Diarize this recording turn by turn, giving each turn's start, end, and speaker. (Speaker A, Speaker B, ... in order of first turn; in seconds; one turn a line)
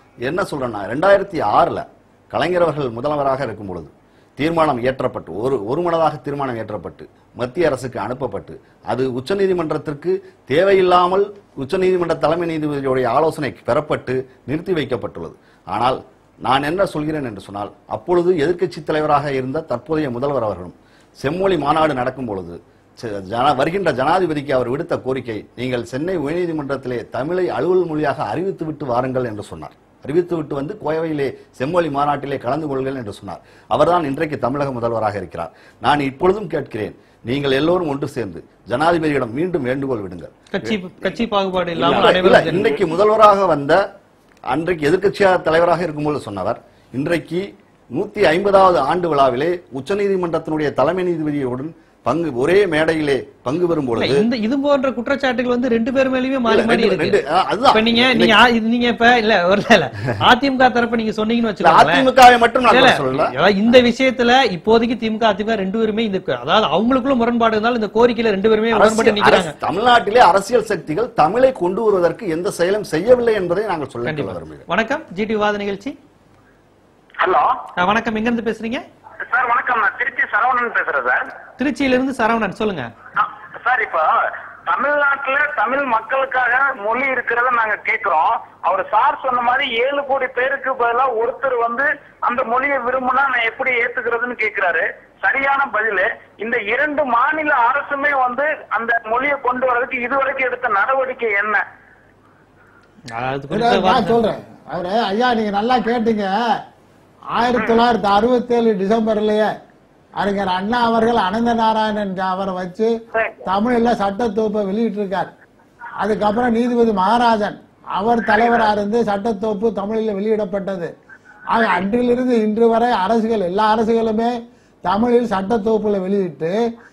Speaker A: 0.2-40.8
Speaker B: 40.5-42.8
Speaker A: 41.7-43.8
Speaker A: 44.5-54.2
Speaker B: 54.0-57.2
Speaker A: 56.5-58.4
Speaker B: 57.7-62.0
Speaker A: 61.6-63.3
Speaker B: 62.7-69.5
Speaker A: 68.7-74.6
Speaker B: 74.0-76.0
Speaker C: 77.2-77.5
Speaker B: 77.8-78.8
Speaker C: 79.3-81.2
Speaker B: 81.6-82.9
Speaker C: 83.2-101.6
Speaker B: 103.1-104.2
Speaker D: 103.5-106.3
Speaker D: 107.3-109.5
Speaker D: 110.2-112.9
Speaker D: 113.4-115.3
Speaker D: 116.0-120.9
Speaker D: 121.5-126.5